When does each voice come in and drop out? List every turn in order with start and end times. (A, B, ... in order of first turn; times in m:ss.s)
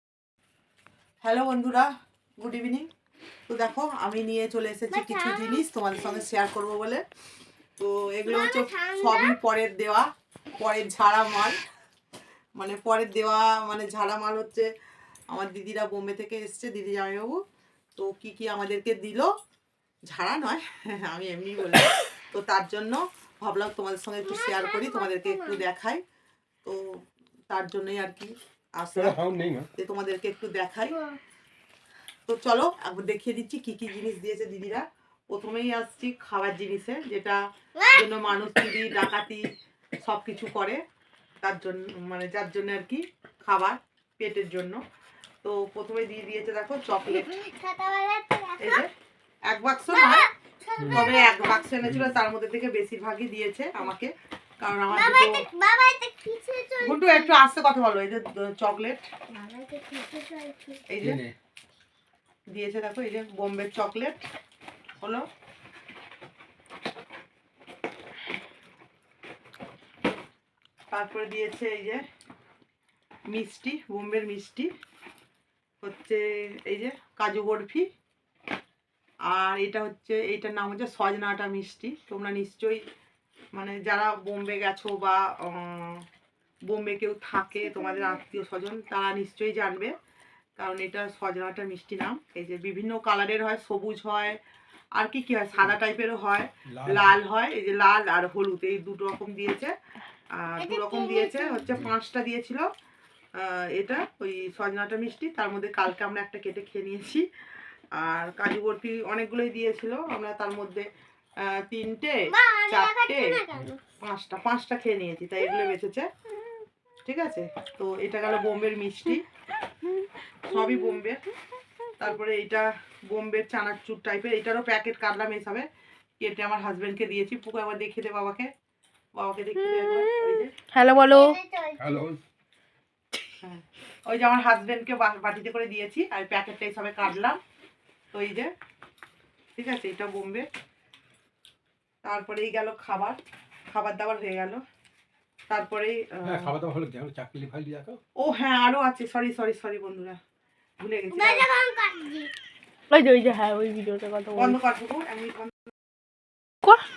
0:01.2-0:02.9 A
0:03.5-0:07.0 A
0:04.9-0:06.2 B
0:07.8-0:11.6 A
0:08.2-0:09.4 B
0:12.6-0:14.7 A
0:15.3-0:17.4 A
0:18.0-0:19.3 A
0:20.1-0:26.0 A
0:24.2-0:25.6 B
0:26.6-0:29.2 A
0:29.0-0:29.7 C
0:29.7-0:31.0 A
0:30.9-0:31.2 B
0:32.3-0:37.4 A
0:37.8-0:38.1 B
0:37.9-0:39.5 A
0:40.0-0:40.8 A
0:41.4-0:44.8 A
0:45.4-0:47.3 A
0:47.0-0:48.8 B
0:48.6-0:48.9 A
0:49.5-0:50.2 A
0:49.9-0:51.7 B
0:50.8-0:51.2 C
0:50.9-0:55.4 A
0:51.8-0:52.2 C
0:54.9-0:57.4 B
0:56.8-0:59.1 A
0:59.3-1:00.9 B
1:00.9-1:01.2 A
1:01.0-1:01.3 C
1:02.5-1:04.2 A
1:05.0-1:05.3 A
1:10.9-1:12.0 A
1:13.3-1:14.7 A
1:15.8-1:17.9 A
1:19.2-1:22.8 A
1:23.5-1:26.1 A
1:26.7-1:30.0 A
1:30.6-1:34.4 A
1:35.0-1:39.8 A
1:36.7-1:37.2 C
1:40.3-1:42.7 A
1:40.6-1:41.7 B
1:43.4-1:47.3 A
1:47.9-1:50.9 A
1:51.4-1:53.4 A
1:52.3-1:53.8 B
1:54.0-1:56.1 A
1:57.0-1:59.3 A
2:00.4-2:01.2 A
2:02.0-2:05.7 A
2:06.2-2:08.5 A
2:09.2-2:10.5 A
2:09.6-2:11.4 D
2:11.0-2:12.0 B
2:11.8-2:12.2 C
2:13.4-2:17.4 A
2:18.1-2:18.5 A
2:19.6-2:20.5 A
2:22.0-2:23.2 A
2:23.7-2:24.6 A
2:25.5-2:26.6 A
2:26.2-2:28.0 C
2:28.2-2:30.2 A
2:30.8-2:31.5 A
2:31.1-2:32.3 B
2:32.9-2:34.6 D
2:34.4-2:35.7 A